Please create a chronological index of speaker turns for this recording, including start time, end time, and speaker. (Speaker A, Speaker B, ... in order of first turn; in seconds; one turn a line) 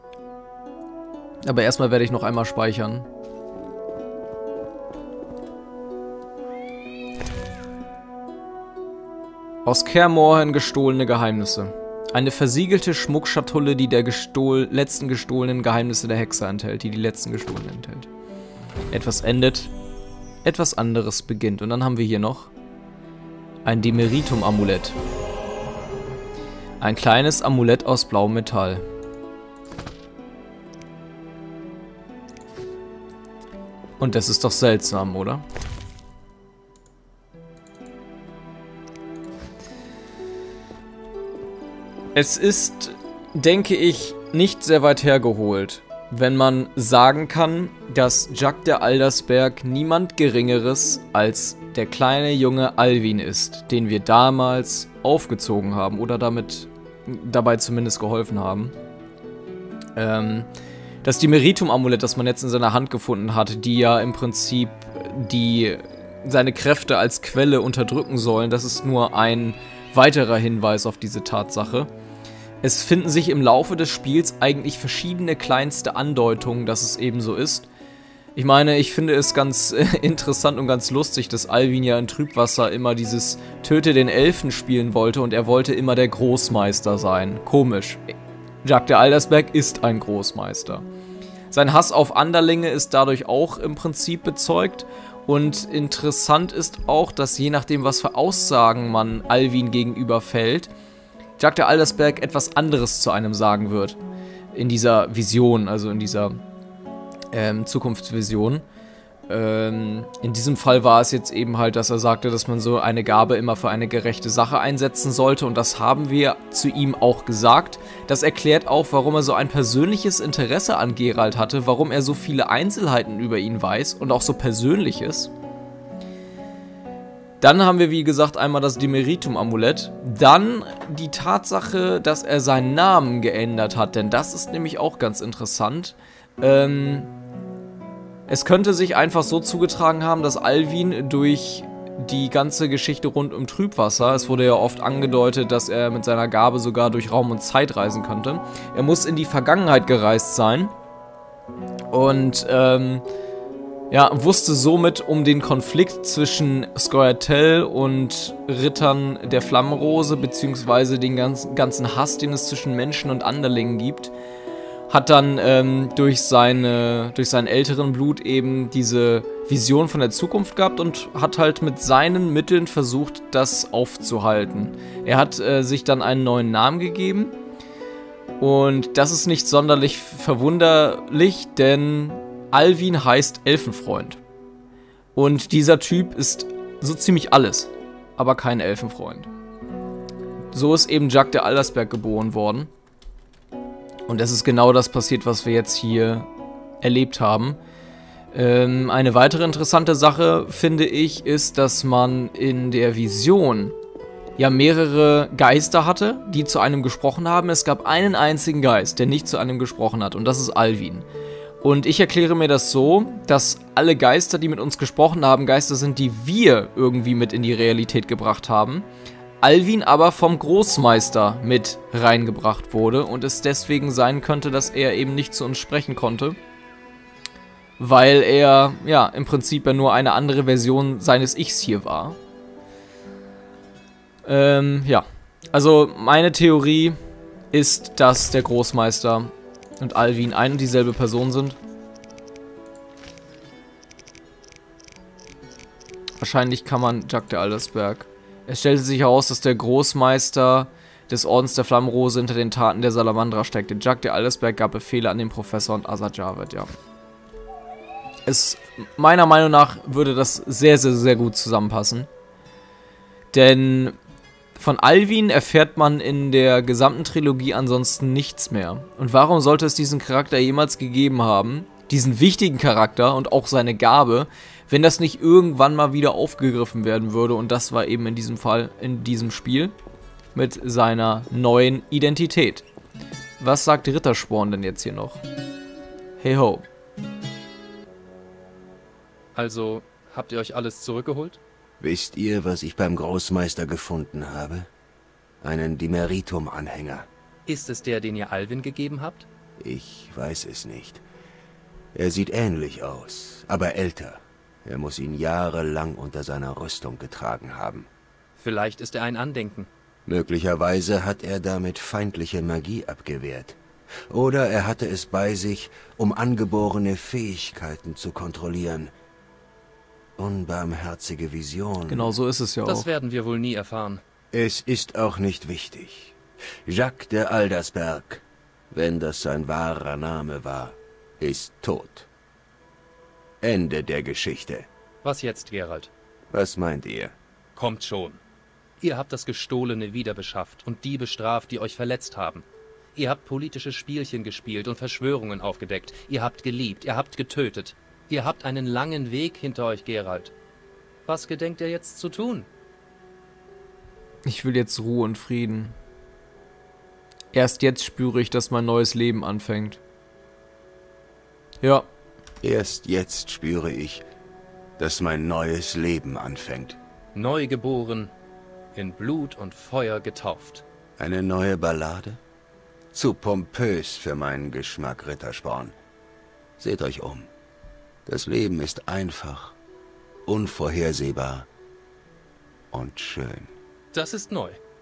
Speaker A: 1.4-3.1
Speaker A: 9.7-18.1
Speaker A: 18.9-19.7
Speaker A: 20.4-22.5
Speaker A: 23.6-25.0
Speaker A: 26.8-28.8
Speaker A: 34.0-35.4
Speaker A: 42.1-58.7
Speaker A: 60.0-60.5
Speaker A: 61.0-71.9
Speaker A: 72.6-77.7
Speaker A: 78.3-88.1
Speaker A: 88.6-90.8
Speaker A: 91.5-100.7
Speaker A: 101.4-104.0
Speaker A: 104.5-106.4
Speaker A: 107.3-108.7
Speaker A: 109.3-125.3
Speaker A: 127.4-137.1
Speaker A: 138.3-150.8
Speaker A: 151.9-153.1
Speaker A: 153.9-164.1
Speaker A: 164.9-177.4
Speaker A: 178.4-184.2
Speaker A: 185.2-189.3
Speaker A: 190.5-192.7
Speaker A: 194.1-196.3
Speaker A: 196.8-197.6
Speaker A: 198.3-203.8
Speaker A: 204.4-211.1
Speaker A: 211.6-218.9
Speaker A: 219.4-226.4
Speaker A: 227.8-232.2
Speaker A: 234.3-237.0
Speaker A: 237.5-241.6
Speaker A: 246.2-256.7
Speaker A: 258.3-262.1
Speaker A: 263.3-264.0
Speaker A: 264.6-279.7
Speaker A: 280.4-282.7
Speaker A: 283.4-285.2
Speaker A: 286.2-286.7
Speaker B: 289.4-291.4
Speaker C: 291.8-294.7
Speaker C: 295.4-297.1
Speaker B: 297.5-299.3
Speaker C: 299.6-301.0
Speaker C: 301.9-307.9
Speaker B: 308.4-309.7
Speaker C: 310.1-313.6
Speaker C: 314.1-318.9
Speaker C: 320.2-322.1
Speaker A: 321.9-322.9
Speaker B: 322.7-324.0
Speaker C: 324.3-332.1
Speaker C: 333.4-334.7
Speaker B: 335.0-335.9
Speaker C: 336.3-337.2
Speaker B: 337.6-338.2
Speaker B: 338.8-342.4
Speaker B: 343.0-350.3
Speaker B: 351.1-352.5
Speaker A: 354.3-355.8
Speaker A: 357.3-359.8
Speaker A: 361.6-361.9
Speaker C: 362.4-364.1
Speaker C: 364.8-366.8
Speaker B: 367.1-368.1
Speaker B: 368.8-370.6
Speaker C: 371.0-372.2
Speaker C: 372.9-375.8
Speaker C: 376.6-377.3
Speaker C: 378.1-379.6
Speaker C: 380.3-381.5
Speaker C: 382.7-383.5
Speaker B: 383.9-384.6